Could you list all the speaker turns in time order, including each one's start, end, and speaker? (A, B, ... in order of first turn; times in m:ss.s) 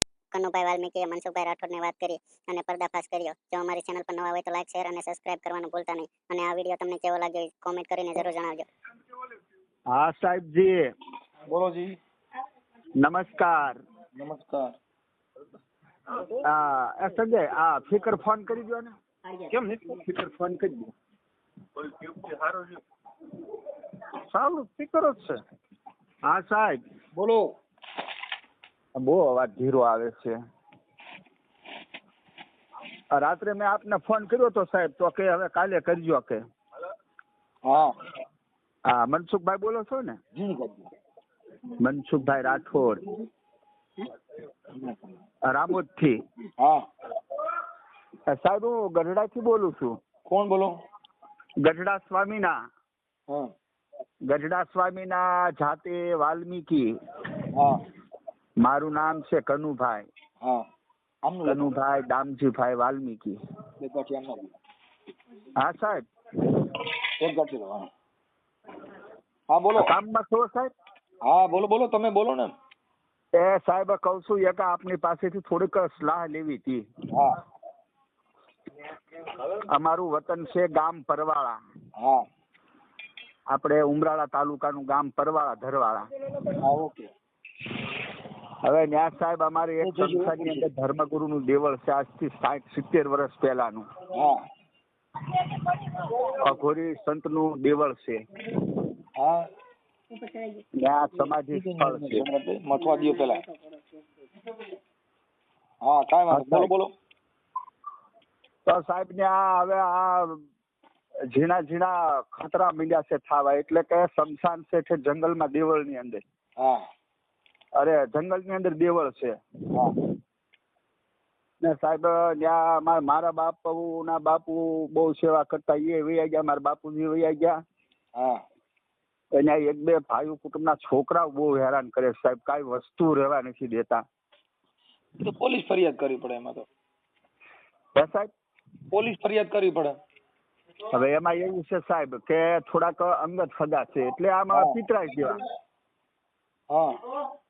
0:00.3-0:08.7 A
0:09.9-0:10.8 B
0:11.5-0:12.0 C
0:13.0-0:13.8 B
0:14.1-0:14.7 C
0:16.2-0:18.9 B
0:19.5-0:20.9 B
0:22.0-0:22.7 B
0:24.3-0:25.4 B
0:26.2-0:26.8 B
0:27.1-0:27.5 C
0:29.0-0:30.3 B
0:33.1-0:36.4 B
0:37.6-0:37.9 C
0:38.9-0:40.2 B
0:40.4-0:40.9 C
0:41.8-0:43.0 B
0:44.7-0:45.2 C
0:45.4-0:46.2 B
0:48.3-0:50.0 B
0:50.3-0:50.7 C
0:51.6-0:52.5 B
0:54.2-0:56.9 B
0:57.5-0:57.8 C
0:58.6-1:00.0 B
1:01.2-1:01.7 C
1:01.4-1:03.3 B
1:03.8-1:04.6 C
1:05.6-1:06.9 B
1:07.2-1:07.9 C
1:09.5-1:09.9 C
1:09.8-1:10.7 B
1:11.2-1:12.5 C
1:13.4-1:16.8 B
1:17.1-1:17.4 C
1:19.3-1:21.6 B
1:22.0-1:22.2 C
1:23.5-1:26.1 B
1:26.6-1:27.1 C
1:28.6-1:33.8 B
1:29.8-1:30.6 C
1:34.1-1:34.4 C
1:35.3-1:38.2 B
1:39.2-1:39.4 C
1:40.8-1:42.2 B
1:41.5-1:43.4 C
1:45.8-1:46.9 C
1:46.3-1:46.7 B
1:48.6-1:50.4 B
1:51.3-1:56.2 B
1:56.6-1:56.8 C
1:57.7-1:59.4 B
2:01.6-2:07.5 B
2:08.2-2:08.4 C
2:09.3-2:14.0 B
2:15.2-2:16.6 C
2:18.0-2:18.3 B
2:18.9-2:20.0 C
2:20.9-2:25.4 B
2:24.5-2:24.8 C
2:26.7-2:26.9 C